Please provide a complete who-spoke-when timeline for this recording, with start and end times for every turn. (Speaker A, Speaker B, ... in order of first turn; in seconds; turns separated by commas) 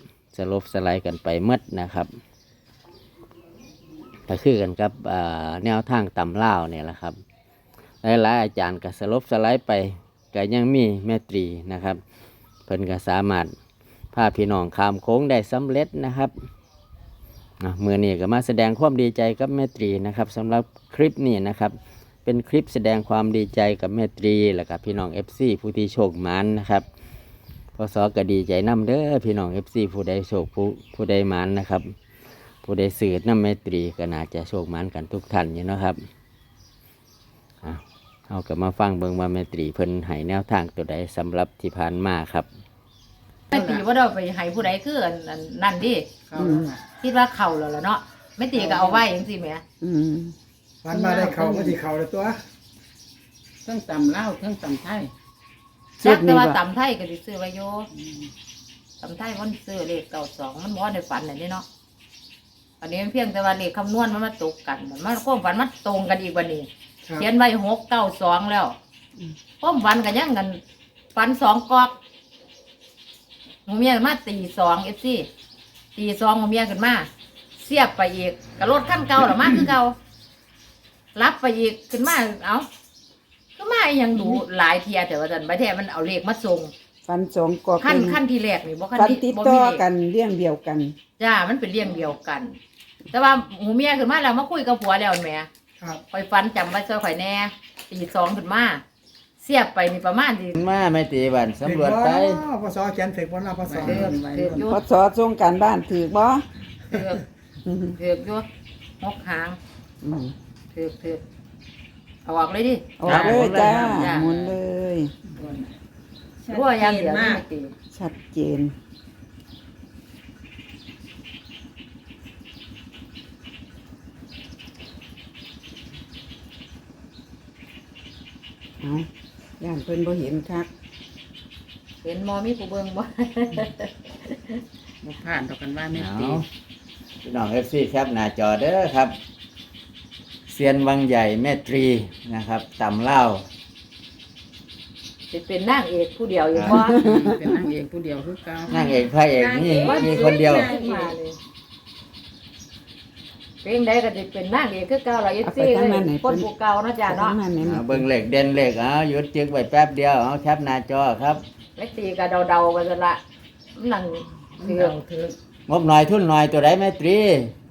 Speaker A: 0.3-2.1, Speaker A: 4.3-7.2, Speaker A: 8.0-12.0, Speaker A: 12.7-13.5, Speaker A: 14.1-16.3, Speaker A: 17.6-26.9, Speaker A: 27.8-31.9, Speaker A: 32.6-36.0, Speaker A: 37.6-42.5, Speaker B: 43.5-46.1, Speaker C: 43.5-43.8, Speaker C: 46.3-46.8, Speaker D: 46.4-46.7, Speaker B: 47.0-49.6, Speaker C: 48.5-49.0, Speaker D: 49.8-50.4, Speaker E: 50.8-52.4, Speaker B: 50.9-51.5, Speaker D: 51.3-51.8, Speaker C: 53.6-55.1, Speaker D: 56.0-56.6, Speaker B: 56.0-57.9, Speaker B: 59.0-61.6, Speaker B: 62.8-68.8, Speaker B: 69.6-70.6, Speaker B: 71.2-71.9, Speaker B: 73.7-75.3, Speaker B: 76.0-77.1, Speaker B: 77.6-80.0, Speaker B: 81.2-82.7, Speaker B: 83.6-86.7, Speaker D: 87.0-88.2, Speaker B: 87.8-89.8, Speaker D: 89.0-91.0, Speaker B: 91.2-92.5, Speaker B: 93.1-95.5, Speaker B: 96.1-98.8, Speaker B: 99.4-100.6, Speaker A: 100.6-102.4, Speaker E: 101.6-104.2, Speaker C: 103.6-104.7, Speaker B: 103.8-104.8, Speaker D: 104.7-106.5, Speaker B: 106.9-107.2, Speaker D: 107.7-108.0, Speaker B: 108.0-108.5, Speaker B: 109.0-109.6, Speaker D: 110.0-110.3, Speaker B: 110.7-111.2, Speaker B: 112.2-114.5, Speaker D: 113.0-115.1, Speaker A: 113.1-113.8, Speaker C: 113.1-114.5, Speaker C: 115.4-115.6, Speaker C: 116.4-117.4, Speaker B: 116.5-117.7, Speaker D: 117.9-118.7, Speaker D: 128.8-129.1, Speaker D: 129.6-130.7, Speaker B: 132.0-134.6, Speaker C: 135.0-136.4, Speaker A: 135.9-136.4, Speaker A: 137.2-139.2, Speaker A: 140.5-143.4, Speaker B: 145.3-147.0, Speaker A: 146.5-146.8, Speaker D: 146.7-147.2, Speaker C: 147.0-151.2, Speaker A: 148.7-150.7, Speaker B: 149.8-151.4, Speaker B: 153.6-157.4, Speaker D: 155.4-156.5, Speaker D: 157.1-158.1, Speaker A: 157.6-161.4, Speaker B: 161.8-163.2, Speaker B: 163.8-165.0, Speaker E: 165.0-165.3, Speaker A: 165.7-167.5